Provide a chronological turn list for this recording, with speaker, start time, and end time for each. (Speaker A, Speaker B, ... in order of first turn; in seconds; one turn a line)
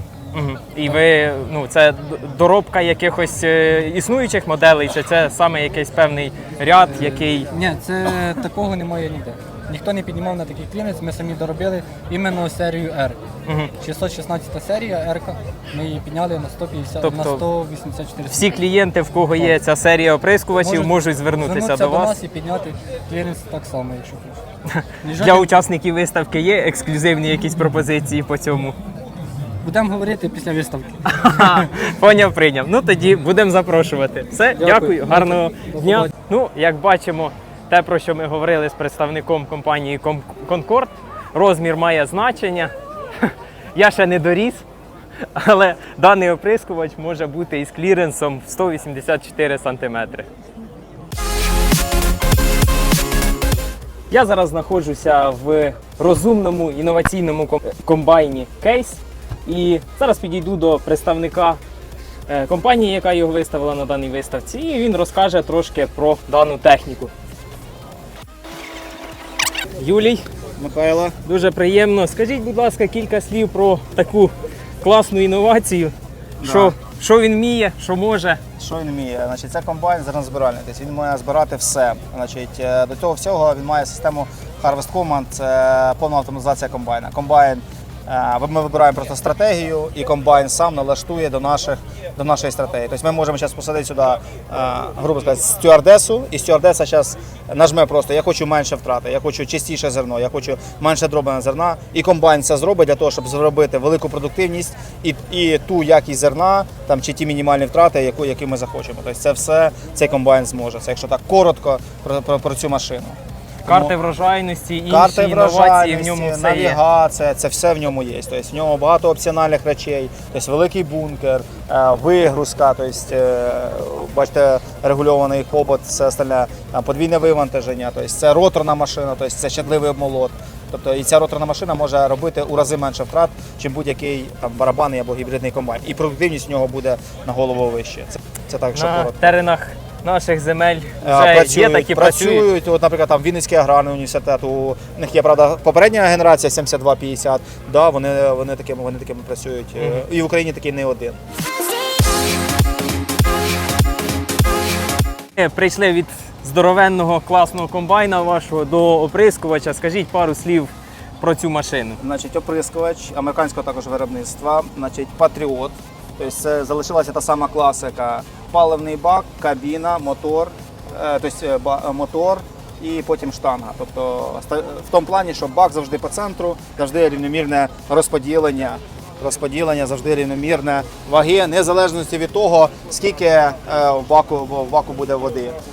Speaker A: 0.3-7.5
Speaker B: 6.8-13.2
Speaker B: 13.8-18.6
Speaker A: 17.0-17.4
Speaker A: 18.3-22.1
Speaker B: 20.6-24.4
Speaker A: 24.7-28.8
Speaker B: 25.0-25.5
Speaker B: 29.6-31.7
Speaker A: 31.1-44.6
Speaker B: 34.5-36.1
Speaker A: 45.4-50.3
Speaker A: 54.1-61.6
Speaker A: 62.3-67.1
Speaker A: 69.8-70.3
Speaker C: 70.6-71.2
Speaker A: 71.2-78.4
Speaker C: 76.4-76.8
Speaker C: 78.6-114.0
Speaker A: 113.7-116.8
Speaker C: 114.9-139.3
Speaker A: 138.7-142.5
Speaker C: 141.0-151.2
Speaker A: 155.4-162.0
Speaker C: 162.0-185.6